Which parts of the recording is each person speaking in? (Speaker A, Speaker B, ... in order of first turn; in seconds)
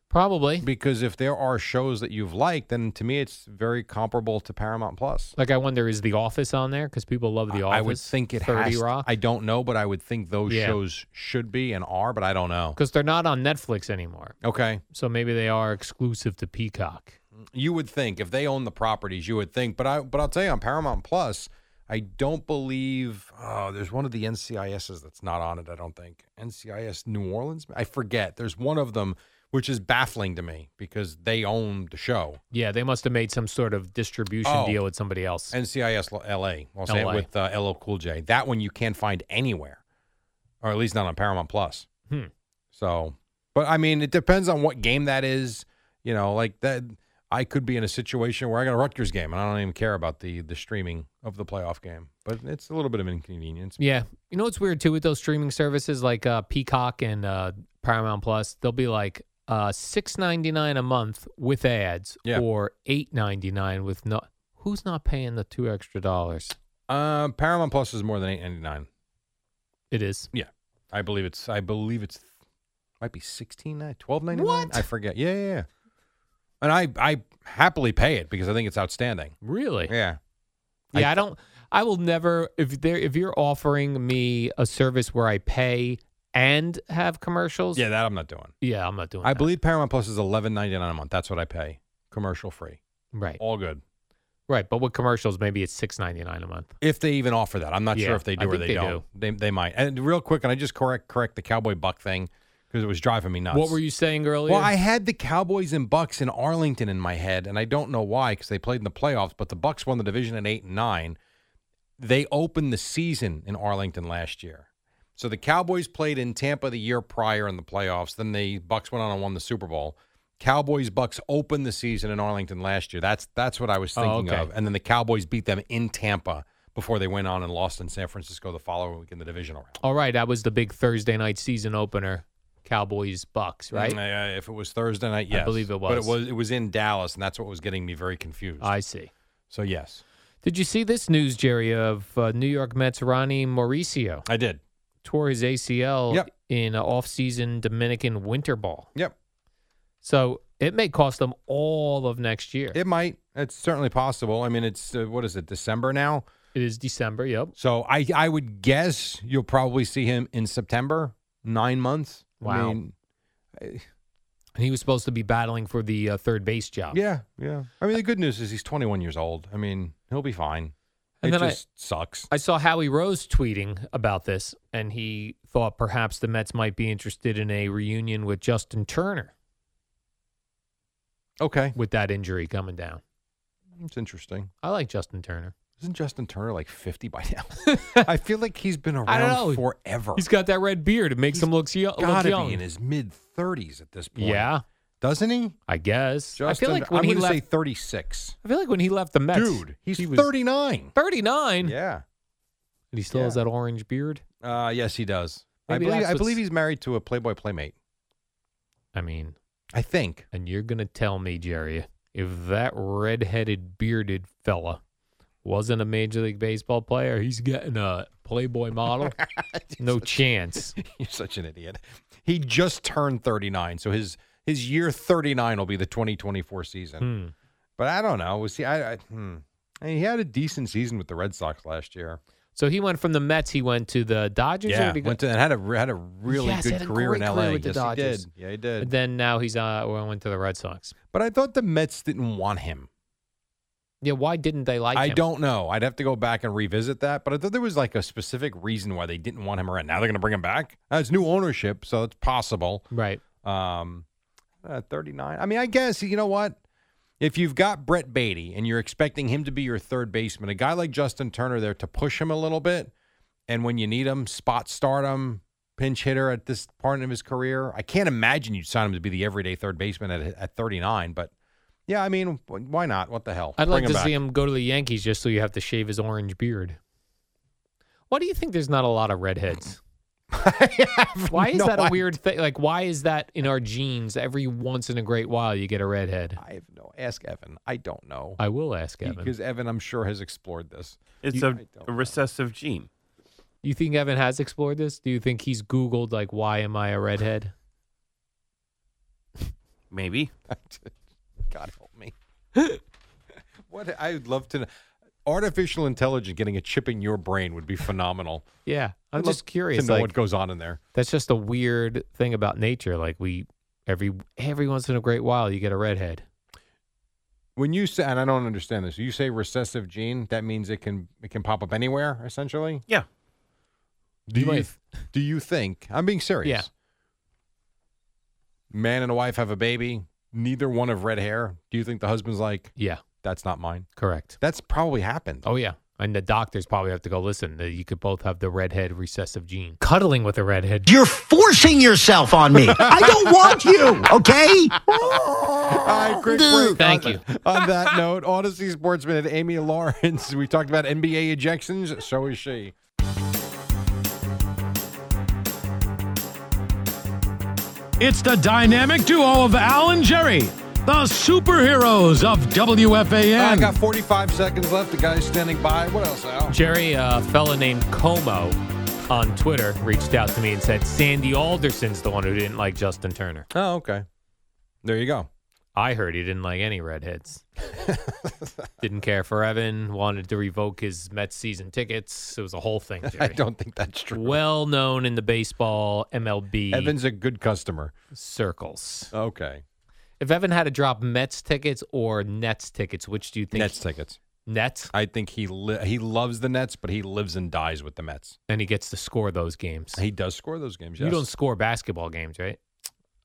Speaker A: 0.1-0.7, 5.4-9.1, 10.5-10.8, 12.8-14.3, 14.9-17.2, 32.5-35.5, 36.9-37.3, 53.8-66.5, 69.9-70.3, 74.3-74.8, 79.4-79.9, 80.9-87.8, 88.6-89.5, 93.1-93.4, 94.5-96.7, 97.9-99.0, 103.5-104.7, 124.0-124.5, 129.8-134.0, 135.3-136.2, 138.6-139.1, 140.4-144.2, 145.0-148.9, 150.0-152.8, 156.5-157.5, 162.4-162.8, 164.5-167.0, 171.2-171.6, 172.3-179.3, 181.8-183.0, 184.6-185.5, 187.6-188.1, 189.1-189.6, 190.1-192.6, 194.2-194.6, 195.7-197.4, 198.4-200.3, 200.9-201.7, 202.9-204.2, 205.7-206.4, 208.9-209.3, 210.3-214.8, 215.4-219.2, 219.8-220.7, 227.0-227.3, 232.6-235.2, 236.3-238.2, 238.8-240.9, 244.0-245.2, 252.9-253.2, 273.6-276.8, 278.1-279.8, 281.3-286.4, 288.4-289.3, 293.6-297.5, 308.6-310.1, 310.9-316.2, 324.4-324.7, 332.8-333.0, 334.0-334.4, 335.4-340.9, 346.8-347.2, 366.5-368.6, 369.1-373.5, 375.7-377.4, 378.8-383.4, 384.1-386.9, 388.1-389.1, 390.2-393.8, 394.4-394.9, 398.5-400.0, 401.0-402.6
Speaker B: 0.6-5.3, 7.5-12.8, 14.4-14.8, 17.4-32.4, 34.4-34.8, 35.5-39.8, 40.6-41.9, 42.7-53.8, 66.9-68.9, 70.3-72.3, 73.0-75.7, 76.6-79.3, 79.9-80.2, 80.9-81.2, 87.7-88.5, 89.2-92.8, 93.4-93.8, 96.8-103.8, 104.5-111.2, 112.0-114.7, 115.2-129.8, 133.7-138.7, 139.5-140.0, 144.2-144.6, 152.7-156.2, 157.6-162.9, 163.5-163.8, 166.9-172.3, 181.4-181.8, 183.8-184.5, 185.8-190.2, 191.3-194.5, 195.0-195.6, 196.3-198.3, 199.3-200.9, 201.6-202.0, 203.1-203.4, 204.4-207.7, 209.7-210.2, 219.0-227.1, 227.8-232.2, 234.7-238.9, 241.1-242.9, 244.9-252.9, 253.4-254.1, 254.6-256.6, 257.2-262.9, 263.5-271.3, 271.9-274.2, 280.3-282.0, 286.4-288.4, 289.0-292.1, 300.5-300.9, 301.5-302.1, 303.6-304.7, 305.2-308.4, 309.2-310.8, 317.6-322.8, 324.3-326.7, 328.7-333.9, 334.4-335.4, 342.6-343.9, 344.8-352.7, 363.3-366.6, 373.5-374.1, 374.8-375.3, 377.8-378.7, 383.0-384.4, 386.7-387.9, 389.1-389.6, 393.5-394.2, 394.9-398.4, 399.9-401.3
Speaker C: 291.2-292.9, 299.9-300.3
Speaker D: 340.9-344.7, 346.4-346.7
Speaker E: 358.0-363.4